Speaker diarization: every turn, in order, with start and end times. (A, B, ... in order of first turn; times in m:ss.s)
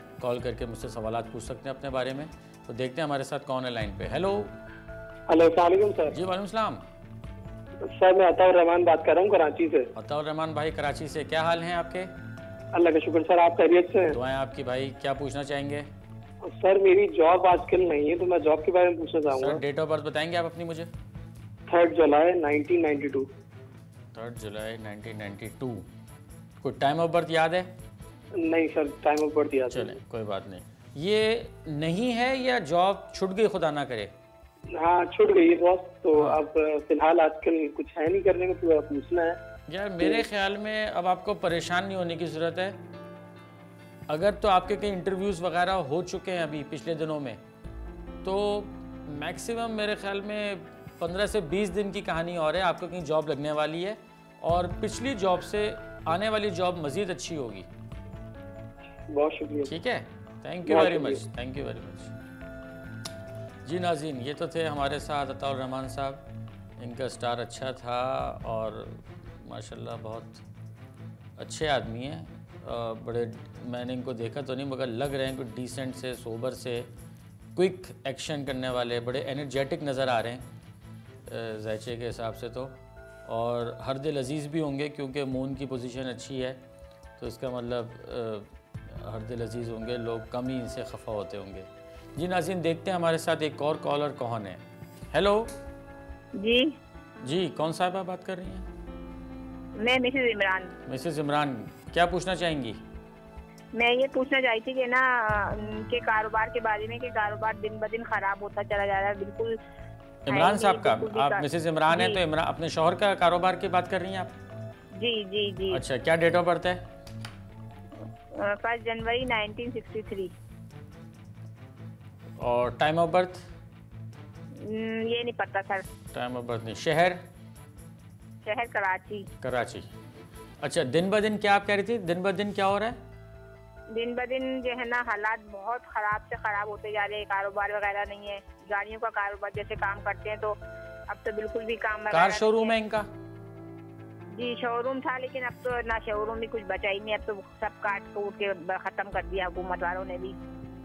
0:00.2-0:04.5 A
0:05.3-0:06.2 B
0:06.1-0:06.8 A
0:07.8-0:09.9 B
0:10.0-0:12.1 A
0:12.7-0:14.2 B
0:14.1-0:15.9 A
0:16.4-0:19.6 B
0:19.4-0:20.9 A
0:21.7-0:23.3 B
0:24.1-0:25.9 A
0:26.6-0:27.7 A
0:28.4-0:29.9 B
0:29.7-0:34.1 A
0:34.7-0:39.4 B
0:36.1-0:36.4 A
0:39.7-0:42.8 A
0:44.1-0:47.4 A
0:48.2-0:57.7 A
0:59.1-0:59.7 B
0:59.6-1:02.1 A
1:00.6-1:01.2 B
1:03.6-1:06.2 A
1:06.8-1:10.4 A
1:11.4-1:16.9 A
1:17.5-1:20.5 A
1:21.2-1:22.8 A
1:23.3-1:26.6 A
1:27.2-1:34.6 A
1:35.1-1:35.5 A
1:36.4-1:36.7 C
1:37.2-1:38.6 A
1:39.8-1:40.7 C
1:40.8-1:42.8 A
1:43.7-1:49.6 C
1:50.2-1:54.3 A
1:50.3-1:52.2 C
1:54.9-1:55.8 C
1:55.7-1:56.8 A
1:58.3-2:00.3 C
2:02.4-2:03.4 A
2:04.6-2:05.8 C
2:06.1-2:07.2 A
2:08.4-2:09.3 C
2:09.4-2:09.9 A
2:10.6-2:13.0 A
2:13.9-2:20.6 C
2:21.1-2:22.8 C
2:22.1-2:23.1 A
2:24.3-2:30.4 C